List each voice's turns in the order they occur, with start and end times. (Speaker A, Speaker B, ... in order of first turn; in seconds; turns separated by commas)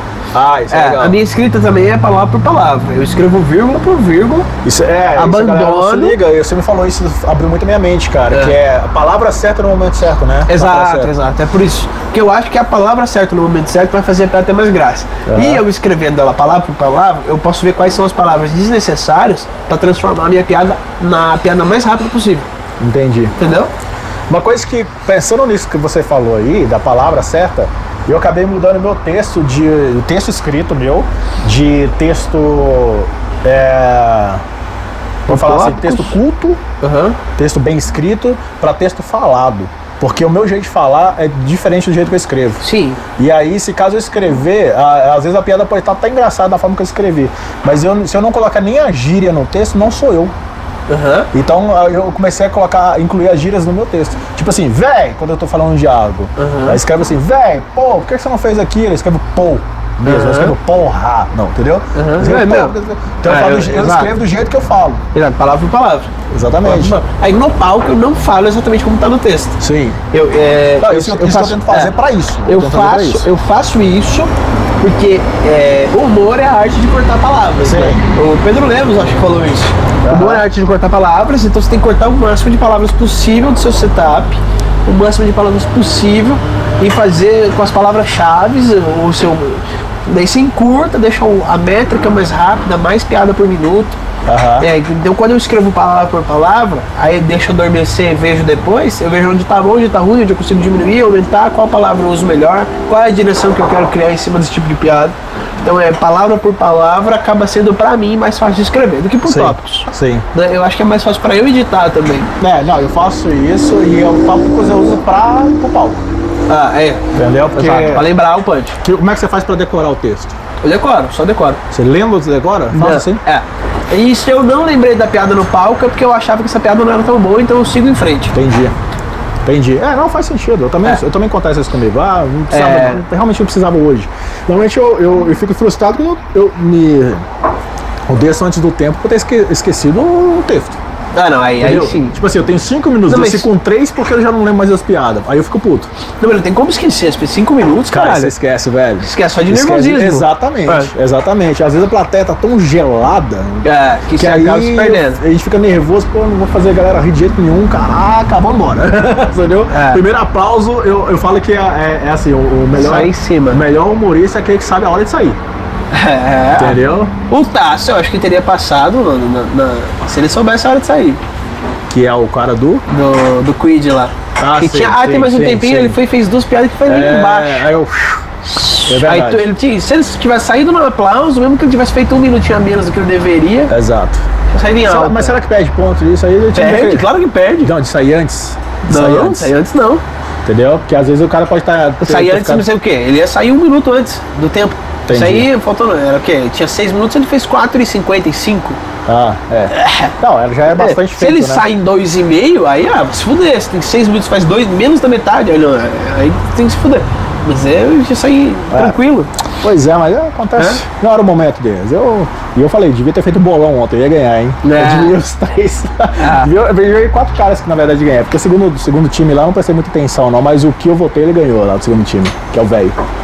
Speaker A: 0.3-1.2, Speaker B: 0.7-4.5, Speaker A: 4.6-11.1, Speaker B: 5.2-6.2, Speaker B: 8.3-8.6, Speaker B: 10.5-22.5, Speaker A: 15.3-15.6, Speaker A: 22.8-23.4, Speaker B: 23.4-23.7, Speaker A: 24.3-34.4, Speaker A: 35.3-36.6, Speaker B: 35.3-36.2, Speaker B: 36.8-37.2, Speaker A: 37.4-42.6, Speaker B: 42.6-43.0, Speaker A: 43.2-50.3, Speaker B: 50.9-51.3, Speaker A: 51.3-65.1, Speaker B: 56.4-56.8, Speaker B: 60.1-60.5, Speaker B: 62.0-64.1, Speaker B: 65.1-66.1, Speaker A: 66.3-67.0, Speaker B: 66.6-69.6, Speaker A: 69.6-70.0, Speaker B: 70.1-72.0, Speaker A: 70.8-73.3, Speaker B: 72.5-94.0, Speaker A: 77.6-78.1, Speaker A: 80.0-80.5, Speaker A: 94.3-94.7, Speaker B: 94.6-112.3, Speaker A: 109.2-110.3, Speaker A: 112.4-116.1, Speaker B: 116.5-118.8, Speaker A: 117.1-118.1, Speaker A: 118.8-120.4, Speaker B: 120.6-121.6, Speaker A: 121.7-123.2, Speaker B: 122.7-128.3, Speaker A: 128.3-128.7, Speaker A: 129.4-137.3, Speaker B: 132.5-133.1, Speaker A: 138.1-140.8, Speaker B: 141.2-142.2, Speaker A: 141.6-145.9, Speaker B: 143.1-143.5, Speaker B: 146.2-148.3, Speaker A: 147.9-165.4, Speaker B: 149.0-150.9, Speaker B: 153.6-155.2, Speaker B: 159.7-160.0, Speaker B: 162.7-163.6, Speaker B: 165.9-171.2, Speaker A: 166.6-167.1, Speaker A: 171.9-172.8, Speaker B: 172.9-177.7, Speaker A: 174.4-176.0, Speaker A: 176.8-178.3, Speaker B: 178.4-183.7, Speaker A: 178.9-179.5, Speaker A: 183.7-184.2, Speaker B: 184.5-185.4, Speaker A: 184.8-187.1, Speaker B: 186.6-187.7, Speaker A: 187.6-189.5, Speaker B: 188.9-190.0, Speaker A: 190.4-192.7, Speaker B: 192.0-198.8, Speaker A: 195.1-195.5, Speaker A: 199.1-201.7, Speaker B: 199.7-200.1, Speaker B: 200.7-209.3, Speaker A: 208.7-209.0, Speaker A: 209.6-223.0, Speaker B: 210.6-210.8, Speaker B: 214.6-215.2, Speaker B: 216.2-216.5